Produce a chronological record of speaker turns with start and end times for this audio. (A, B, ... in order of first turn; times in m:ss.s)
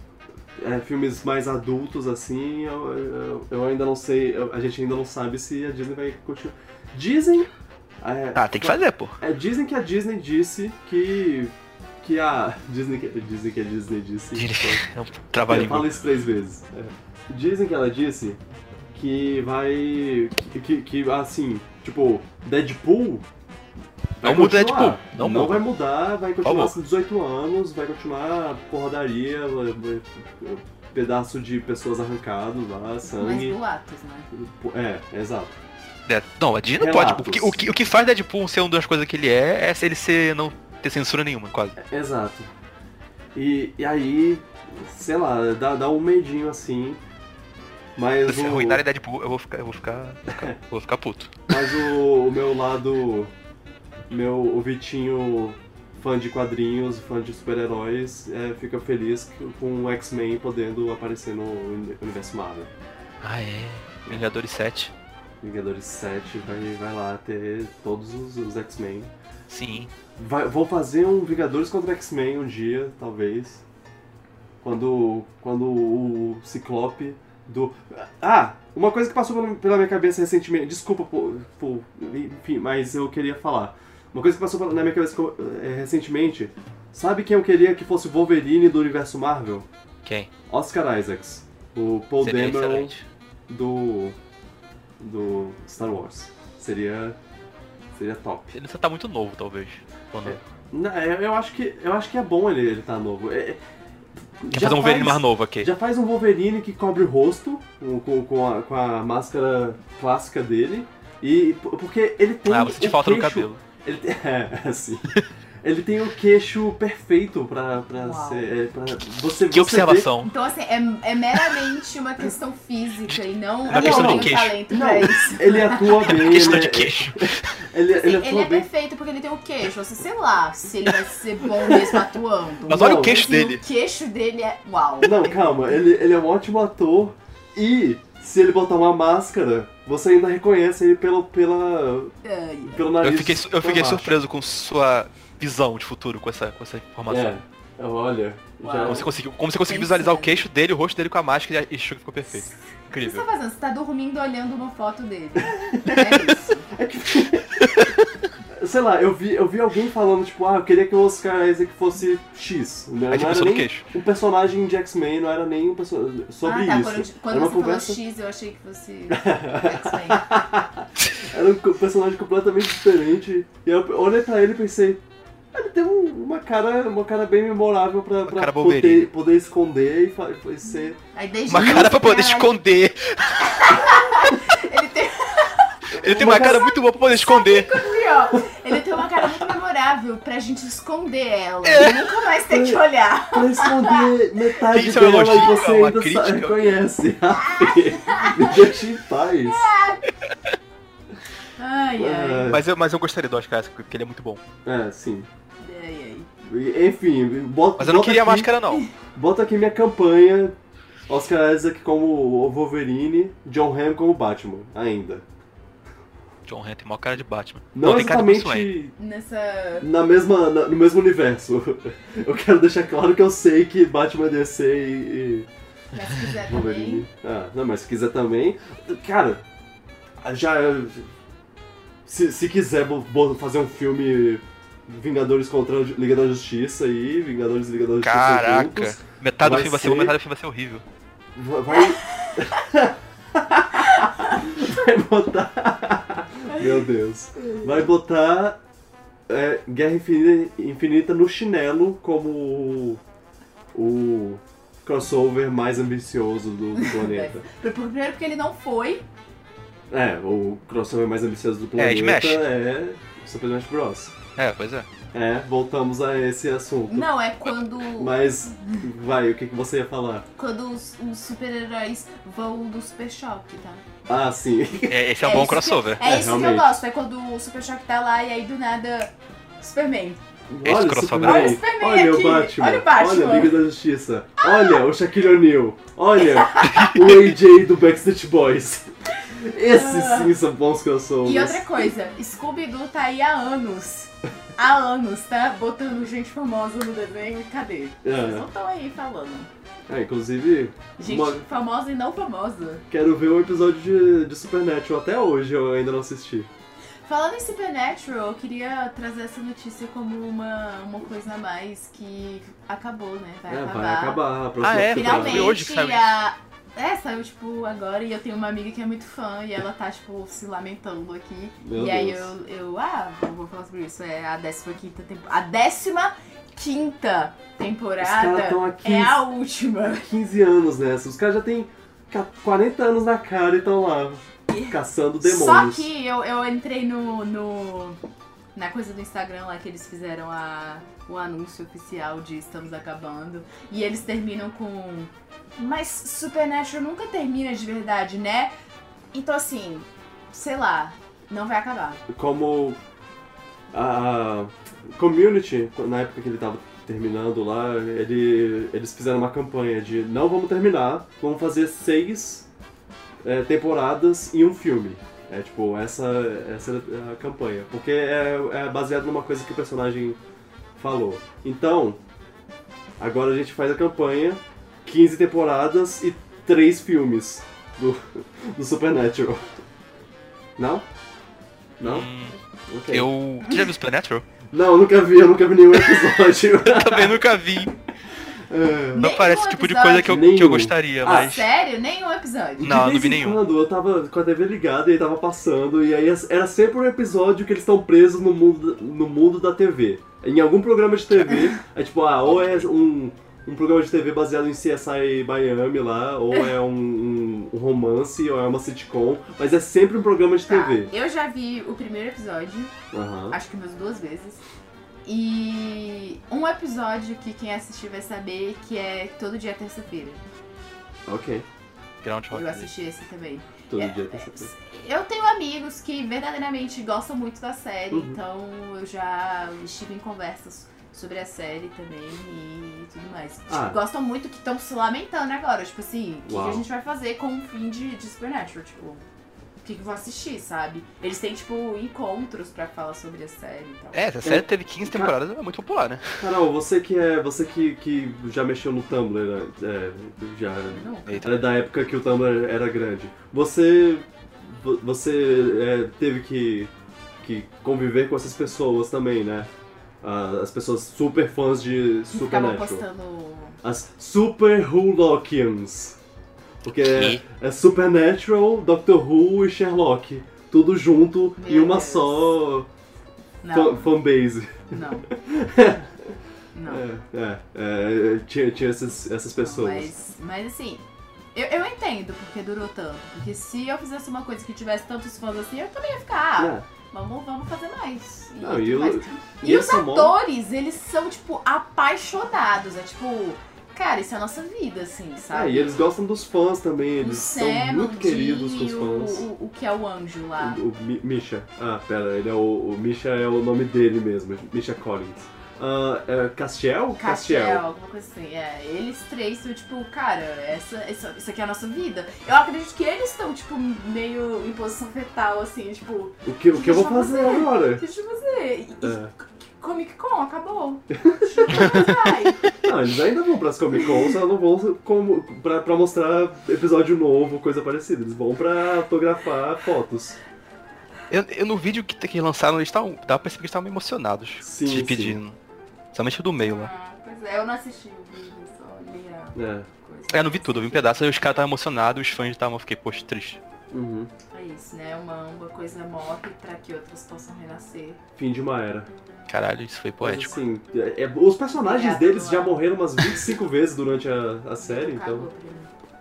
0:00.6-0:14.8 A
0:08.3-0:09.2 B
0:14.3-0:15.9 B
0:15.5-0:18.4 A
0:18.9-0:23.2 A
0:24.2-0:33.6 A
0:24.2-0:25.7 B
0:26.4-0:26.7 B
0:33.2-0:34.3 C
0:34.3-0:35.6 A
0:36.1-0:41.8 B
0:36.8-0:37.6 A
0:41.8-0:42.5 A
0:43.3-0:47.0 A
0:48.0-0:48.8 A
0:48.3-0:51.6 B
0:50.3-0:50.6 A
0:51.5-0:53.3 A
0:54.1-1:02.7 A
1:03.2-1:04.9 B
1:05.4-1:09.1 A
1:09.5-1:09.9 B
1:10.2-1:13.6 A
1:14.6-1:29.7 A
1:30.0-1:30.3 B
1:30.5-1:32.9 A
1:32.2-1:33.0 B
1:33.5-1:34.2 A
1:35.0-1:37.2 A
1:37.9-1:38.5 A
1:38.5-1:40.4 B
1:40.2-1:43.6 A
1:44.4-1:55.1 A
1:44.5-1:45.7 B
1:52.5-1:53.6 B
1:55.6-2:00.1 A
1:58.0-1:58.5 C
1:59.5-2:00.3 B
2:00.2-2:06.2 C
2:03.1-2:05.1 B
2:03.7-2:08.7 A
2:05.9-2:07.5 B
2:07.9-2:15.6 C
2:12.7-2:13.6 B
2:12.7-2:13.3 A
2:15.0-2:22.1 A
2:22.2-2:22.8 C
2:22.7-2:24.1 A
2:23.0-2:27.4 B
2:27.1-2:29.1 A
2:28.6-2:30.4 C
2:28.8-2:33.3 B
2:32.3-2:36.7 C
2:35.4-2:36.2 A
2:36.7-2:37.9 A
2:37.6-2:37.9 B
2:38.6-2:48.0 A
2:43.1-2:43.9 B
2:46.4-2:50.3 C
2:49.1-2:55.0 A
2:55.5-3:01.0 A
2:58.3-2:59.1 B
3:01.1-3:02.5 C
3:01.5-3:03.9 B
3:03.6-3:05.7 C
3:05.9-3:06.6 A
3:06.0-3:07.9 B
3:07.1-3:14.1 C
3:11.6-3:12.1 B
3:12.5-3:19.7 A
3:14.7-3:16.8 B
3:17.4-3:18.6 C
3:19.4-3:20.0 C
3:21.6-3:22.6 C
3:22.0-3:22.6 A
3:22.5-3:24.4 B
3:24.6-3:25.3 A
3:25.6-3:26.3 C
3:26.4-3:28.5 A
3:27.8-3:28.8 B
3:29.1-3:30.6 A
3:31.1-3:35.2 A
3:36.5-3:38.7 B
3:37.7-3:39.0 A
3:39.0-3:39.9 C
3:39.8-3:45.5 A
3:45.9-3:47.0 C
3:46.3-3:49.4 A
3:50.2-3:51.1 A
3:52.0-4:00.1 A
3:58.0-4:00.8 B
4:01.3-4:08.6 A
4:01.7-4:02.5 C
4:03.9-4:04.3 C
4:07.4-4:07.7 C
4:09.3-4:13.0 A
4:13.7-4:17.4 A
4:16.8-4:19.0 C
4:19.9-4:24.1 A
4:21.8-4:22.4 B
4:24.4-4:24.9 B
4:25.1-4:27.1 A
4:26.9-4:28.8 C
4:27.9-4:30.3 A
4:30.4-4:33.8 C
4:34.1-4:35.4 A
4:34.9-4:36.0 B
4:35.2-4:40.2 C
4:36.0-4:36.8 A
4:40.5-4:51.9 A
4:40.6-4:41.6 B
4:41.2-4:43.6 C
4:44.4-4:44.7 C
4:46.2-4:47.0 C
4:49.7-4:50.3 C
4:51.2-4:59.5 C
4:58.0-4:58.4 A
4:59.9-5:01.4 A
5:01.0-5:02.8 C
5:02.9-5:06.5 A
5:07.0-5:14.2 C
5:13.5-5:15.6 A
5:14.6-5:16.1 B
5:14.9-5:30.1 C
5:21.6-5:22.3 A
5:28.0-5:29.2 A
5:30.0-5:35.9 A
5:34.5-5:38.0 C
5:38.6-5:48.5 C
5:49.1-5:52.0 C
5:52.1-5:52.8 A
5:53.7-6:02.5 A
6:03.2-6:10.2 A
6:10.8-6:12.0 A
6:13.0-6:19.6 A
6:20.6-6:20.9 A
6:21.8-6:22.1 A
6:21.8-6:22.4 B
6:22.7-6:23.1 A
6:22.9-6:24.2 B
6:24.5-6:27.2 A
6:26.6-6:27.7 B
6:28.5-6:29.1 A
6:28.9-6:30.3 C
6:29.0-6:31.4 B
6:30.0-6:31.4 A
6:31.0-6:32.8 C
6:32.6-6:50.9 A
6:32.6-6:33.4 B
6:41.3-6:41.6 C
6:50.4-6:52.7 C
6:52.9-6:53.4 A
6:53.3-6:54.4 C
6:55.0-7:00.2 C
7:01.0-7:01.4 A
7:02.0-7:02.7 B
7:02.3-7:19.0 C
7:03.7-7:04.5 A
7:07.9-7:08.2 A
7:13.5-7:13.8 A
7:16.3-7:16.6 A
7:19.6-7:24.1 C
7:23.9-7:26.3 B
7:24.2-7:25.1 A
7:26.2-7:39.5 A
7:30.7-7:31.2 C
7:31.0-7:31.4 B
7:40.0-7:42.8 A
7:42.1-7:43.6 C
7:43.6-7:46.0 A
7:46.6-7:52.7 A
7:46.8-7:47.2 B
7:51.4-7:52.4 C
7:53.4-7:54.0 C
7:53.5-7:56.1 A
7:54.7-7:55.1 C
7:56.5-7:56.8 C
7:56.7-7:59.9 A
7:59.4-8:15.8 C
8:06.4-8:06.7 A
8:08.4-8:10.2 A
8:15.3-8:19.3 A
8:17.0-8:20.6 C
8:20.4-8:27.6 A
8:27.0-8:42.5 C
8:36.2-8:37.8 A
8:38.8-8:39.1 A
8:40.9-8:41.9 A
8:41.5-8:41.9 B
8:42.6-8:50.2 A
8:51.1-8:55.4 B
8:54.4-8:55.2 A
8:55.9-8:56.7 B
8:56.4-9:01.4 C
8:59.3-8:59.7 A
9:00.1-9:03.4 B
9:03.7-9:04.1 A
9:04.3-9:08.0 C
9:08.2-9:08.9 A
9:09.3-9:10.3 B
9:10.0-9:15.3 A
9:11.6-9:13.4 C
9:14.6-9:15.7 C